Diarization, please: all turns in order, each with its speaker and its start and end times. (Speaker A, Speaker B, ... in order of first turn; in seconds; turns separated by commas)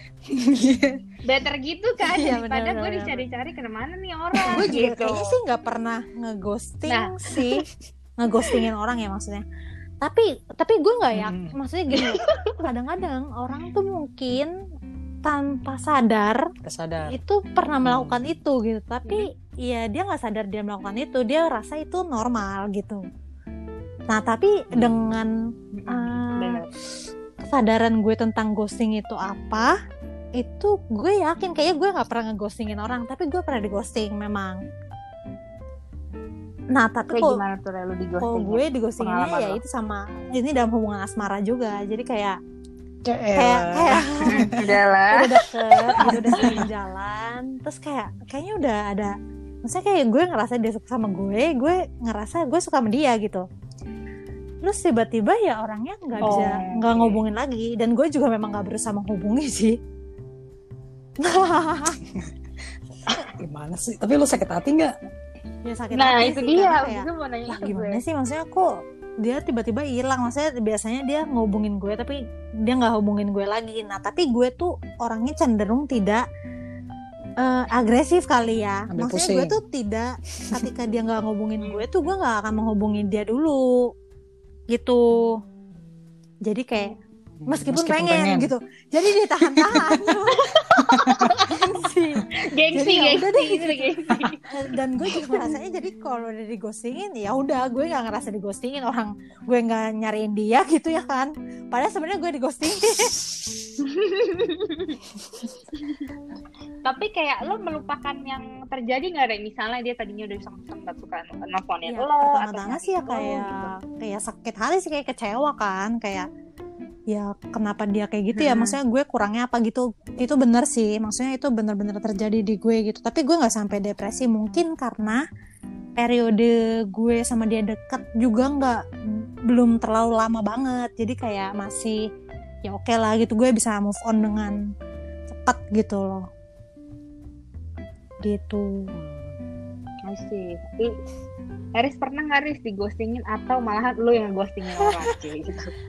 Speaker A: 0.3-1.0, Speaker B: 1.2-5.4, Speaker C: 2.1-3.2, Speaker C: 4.5-7.7, Speaker B: 6.9-7.4, Speaker C: 8.2-9.4, Speaker C: 10.0-14.5, Speaker A: 11.1-11.6, Speaker B: 11.9-12.6, Speaker C: 15.2-16.5, Speaker A: 16.6-17.2, Speaker C: 17.1-23.0, Speaker A: 17.8-18.2, Speaker C: 24.1-25.3, Speaker A: 24.7-25.2, Speaker B: 25.7-26.7, Speaker C: 25.9-26.6, Speaker C: 27.4-29.7, Speaker C: 30.4-34.6, Speaker C: 36.7-37.3, Speaker B: 37.1-39.6, Speaker C: 38.2-42.4, Speaker A: 43.0-44.6, Speaker C: 43.3-44.5, Speaker B: 44.3-45.3, Speaker C: 45.1-49.1, Speaker B: 46.0-46.7, Speaker A: 46.0-46.7, Speaker C: 49.6-53.4, Speaker C: 54.6-59.8, Speaker A: 56.1-56.5, Speaker B: 56.2-57.2, Speaker C: 61.2-62.0, Speaker A: 63.1-64.9, Speaker C: 65.6-68.6, Speaker B: 65.9-68.0, Speaker C: 69.2-76.2, Speaker C: 77.4-83.6, Speaker A: 78.9-79.6, Speaker C: 84.7-85.4, Speaker C: 86.5-86.9, Speaker A: 87.4-88.5, Speaker C: 87.5-90.5, Speaker A: 89.4-90.2, Speaker B: 90.4-91.5, Speaker A: 90.8-91.4, Speaker C: 91.4-93.9, Speaker B: 92.4-94.5, Speaker C: 94.5-103.1, Speaker B: 95.1-95.5, Speaker B: 103.9-105.0, Speaker B: 105.7-106.1, Speaker B: 106.8-113.7, Speaker C: 111.9-116.2, Speaker C: 117.1-125.2, Speaker A: 118.4-118.7, Speaker C: 126.0-132.0, Speaker C: 132.7-134.6, Speaker C: 135.3-136.2, Speaker C: 138.2-138.9, Speaker A: 138.9-139.4, Speaker B: 140.1-141.0, Speaker B: 141.8-145.7